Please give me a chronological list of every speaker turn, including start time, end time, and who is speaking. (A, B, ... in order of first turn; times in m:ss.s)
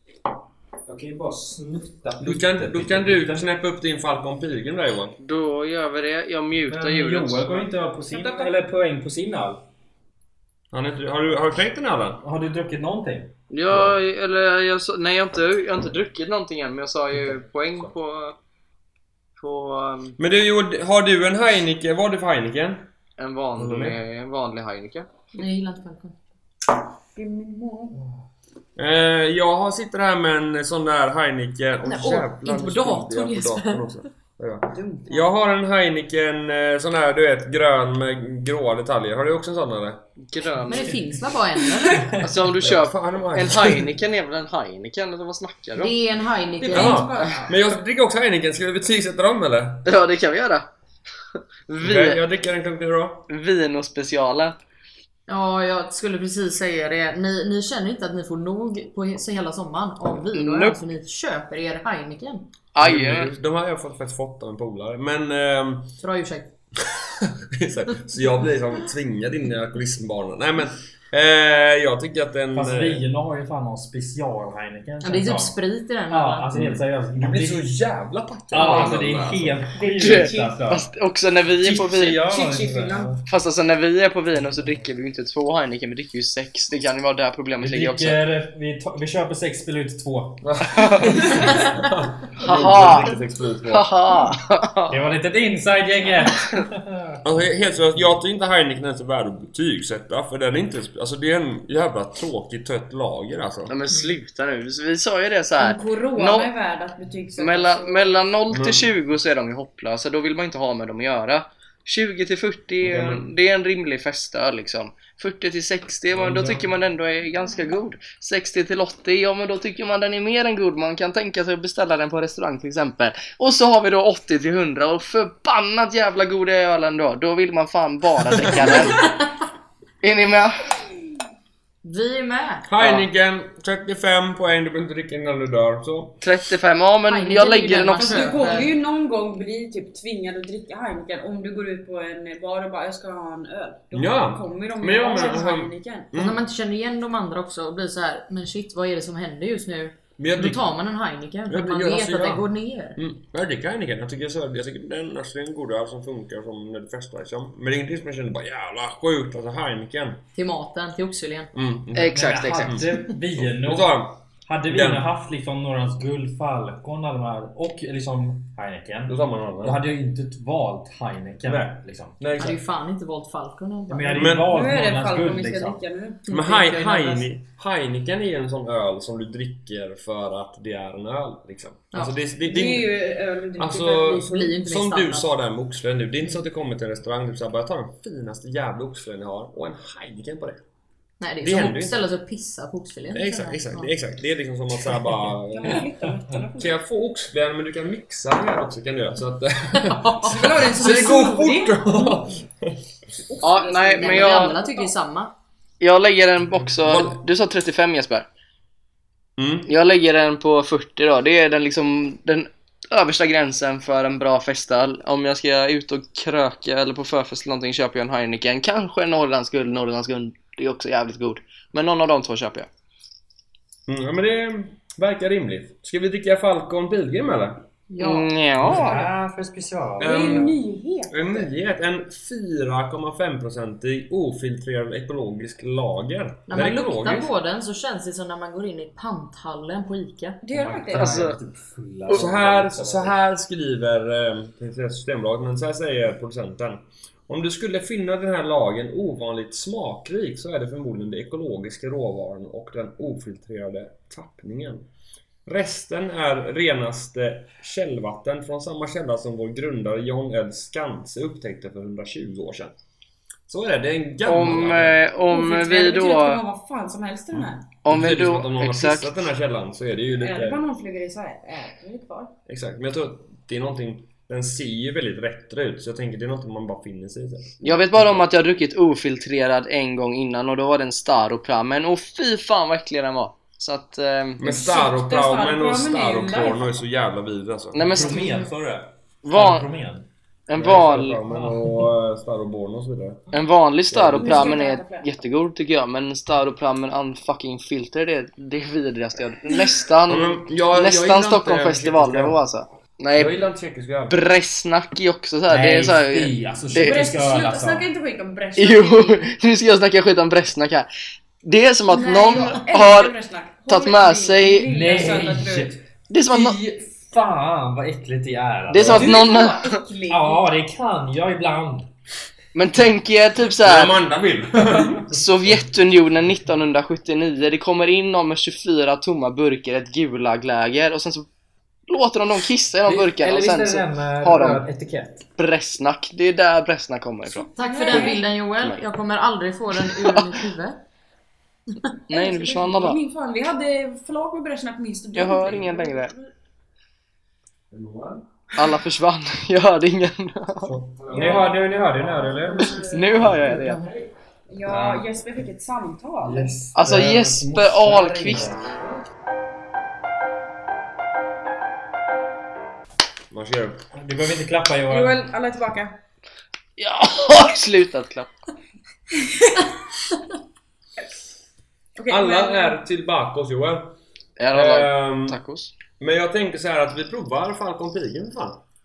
0:00.9-0:03.5 A
0:02.2-0:05.2 B
0:05.2-0:07.6 C
0:06.7-0:09.6 A
0:08.1-0:08.5 D
0:10.7-0:12.2 B
0:12.2-0:13.4 A
0:13.5-0:18.4 C
0:17.1-0:17.9 A
0:19.4-0:20.2 C
0:20.2-0:22.9 B
0:23.2-0:25.1 C
0:23.6-0:24.0 B
0:25.4-0:26.2 E
0:27.2-0:28.0 D
0:28.8-0:40.0 B
0:31.8-0:33.9 E
0:34.7-0:35.3 D
0:40.2-0:41.0 C
0:40.7-0:42.1 E
0:42.0-0:42.3 A
0:42.2-0:46.0 C
0:42.5-0:43.9 B
0:45.8-0:47.1 E
0:46.6-0:47.6 D
0:46.7-0:49.9 B
0:49.8-0:50.7 C
0:51.7-0:52.2 C
0:51.8-0:53.3 B
0:53.3-0:54.6 C
0:55.3-1:02.5 E
1:00.3-1:00.8 C
1:02.8-1:03.3 C
1:02.8-1:06.0 B
1:06.0-1:06.5 E
1:06.9-1:13.0 B
1:12.5-1:15.6 A
1:15.0-1:16.5 E
1:16.1-1:17.7 A
1:16.5-1:19.8 B
1:18.5-1:20.9 A
1:20.0-1:22.2 C
1:21.6-1:23.2 A
1:22.2-1:23.2 D
1:23.3-1:28.2 C
1:27.6-1:31.7 A
1:30.4-1:33.9 B
1:30.8-1:31.1 C
1:32.4-1:33.2 C
1:33.7-1:35.0 C
1:34.9-1:37.2 A
1:37.2-1:43.8 B
1:43.7-1:46.5 C
1:45.6-1:48.2 D
1:47.4-2:09.1 C
1:48.5-1:48.9 B
1:52.8-1:53.2 B
1:56.2-1:56.6 B
2:09.0-2:09.2 E
2:10.0-2:10.6 C
2:11.8-2:12.7 E
2:12.7-2:16.2 B
2:12.8-2:13.1 C
2:16.2-2:18.4 C
2:17.1-2:18.7 E
2:18.0-2:26.1 D
2:23.9-2:26.4 B
2:26.1-2:33.0 E
2:30.2-2:30.6 B
2:31.5-2:40.2 B
2:40.3-2:41.5 E
2:41.5-2:45.0 B
2:42.0-2:42.8 C
2:42.1-2:52.3 A
2:49.1-2:49.8 B
2:51.5-2:52.6 B
2:52.4-2:54.4 E
2:53.9-2:55.8 A
2:54.2-2:54.6 B
2:54.5-2:56.2 D
2:56.3-2:57.3 E
2:56.3-3:02.9 B
3:02.4-3:04.4 D
3:03.6-3:10.6 B
3:03.9-3:05.3 E
3:11.2-3:13.9 E
3:11.4-3:12.0 B
3:13.1-3:22.8 B
3:15.5-3:16.8 D
3:19.8-3:20.4 E
3:20.2-3:22.2 D
3:23.2-3:24.9 D
3:23.4-3:24.6 C
3:24.0-3:25.3 E
3:25.8-3:28.3 C
3:26.6-3:27.2 B
3:29.4-3:29.7 B
3:29.7-3:42.7 C
3:43.9-3:47.7 B
3:47.9-3:48.9 E
3:48.0-3:49.1 C
3:48.6-3:50.5 A
3:50.0-3:51.5 D
3:50.0-3:57.3 B
3:56.5-4:00.4 E
4:00.4-4:01.2 D
4:00.5-4:03.2 A
4:00.9-4:01.4 C
4:02.1-4:14.9 B
4:15.5-4:22.7 B
4:23.5-4:25.0 B
4:24.2-4:26.4 C
4:25.2-4:27.8 D
4:27.3-4:30.6 B
4:27.8-4:29.2 C
4:30.2-4:32.3 D
4:32.5-4:38.3 B
4:37.6-4:44.4 C
4:44.4-4:48.1 B
4:44.4-4:46.7 D
4:47.7-4:48.3 C
4:47.9-4:50.1 A
4:49.2-4:49.7 C
4:50.5-4:51.2 C
4:50.5-4:53.2 B
4:51.4-4:51.6 A
4:53.3-5:03.4 C
4:53.9-4:54.5 B
4:54.2-4:55.1 D
5:00.1-5:02.4 B
5:03.1-5:04.2 B
5:04.1-5:07.0 C
5:05.5-5:07.9 A
5:06.8-5:09.3 D
5:08.6-5:10.9 C
5:11.4-5:13.1 C
5:11.9-5:15.8 D
5:13.7-5:14.8 C
5:14.7-5:19.3 A
5:16.1-5:16.6 C
5:18.7-5:19.8 C
5:18.9-5:20.4 D
5:20.1-5:21.9 A
5:22.5-5:24.0 C
5:23.6-5:25.6 B
5:25.1-5:31.3 C
5:31.9-5:34.7 C
5:32.8-5:35.3 A
5:35.4-5:38.8 C
5:37.6-5:40.8 E
5:37.6-5:38.2 D
5:39.9-5:40.2 C
5:42.1-5:43.0 C
5:42.1-5:46.3 D
5:45.2-5:46.1 C
5:47.7-5:48.3 B
5:48.6-5:50.7 C
5:50.6-5:53.8 A
5:50.9-5:54.1 B
5:51.1-5:51.5 D
5:52.9-5:53.8 C
5:54.5-5:56.6 D
5:54.7-5:55.1 A
5:56.2-5:57.3 A
5:56.6-5:59.0 B
5:56.7-5:58.5 C
5:58.2-5:58.6 A
6:03.3-6:03.9 B
6:03.9-6:05.2 A
6:04.9-6:06.0 D
6:06.8-6:08.3 C
6:09.3-6:09.7 D
6:12.0-6:12.8 D
6:12.1-6:14.0 B
6:14.4-6:15.7 C
6:14.5-6:15.4 B
6:16.0-6:18.6 B